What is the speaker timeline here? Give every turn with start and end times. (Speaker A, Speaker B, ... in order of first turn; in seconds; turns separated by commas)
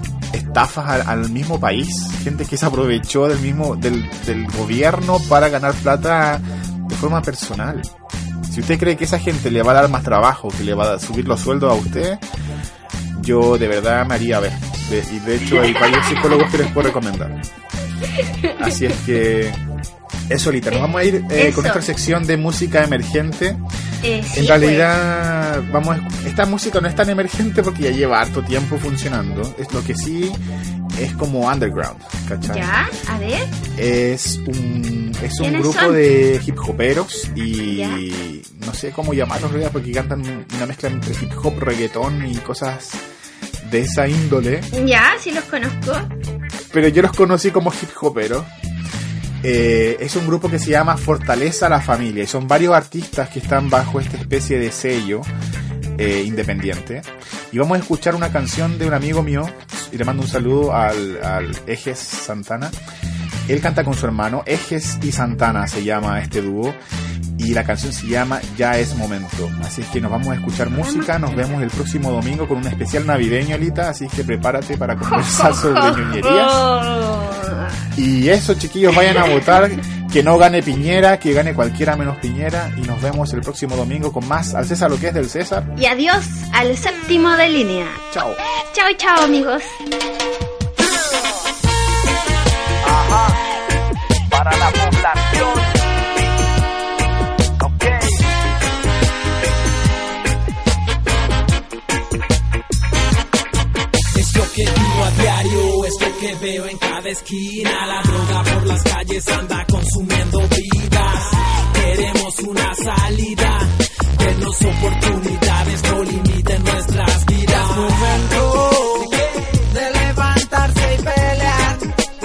Speaker A: 0.3-7.9, Speaker A: 8.5-12.2, Speaker A: 13.1-17.4, Speaker B: 15.6-16.6, Speaker B: 18.1-18.8, Speaker A: 18.6-19.6, Speaker A: 20.3-23.6, Speaker B: 21.3-21.8, Speaker B: 24.0-24.9, Speaker A: 24.3-30.4, Speaker A: 31.0-32.7, Speaker B: 32.4-33.5, Speaker A: 33.8-43.0, Speaker B: 35.4-36.0, Speaker B: 37.6-38.0, Speaker A: 43.6-44.7, Speaker B: 44.7-46.1, Speaker A: 46.7-48.5, Speaker A: 49.4-55.3, Speaker A: 56.0-62.7, Speaker A: 63.5-66.8, Speaker A: 67.4-76.6, Speaker B: 70.8-71.6, Speaker B: 75.0-77.8, Speaker A: 77.9-85.7, Speaker B: 79.1-79.3, Speaker B: 85.8-88.0, Speaker A: 88.1-88.4, Speaker B: 88.7-89.8, Speaker C: 92.8-93.4, Speaker C: 94.3-95.7, Speaker C: 97.6-98.2, Speaker C: 104.1-118.3, Speaker D: 117.5-121.9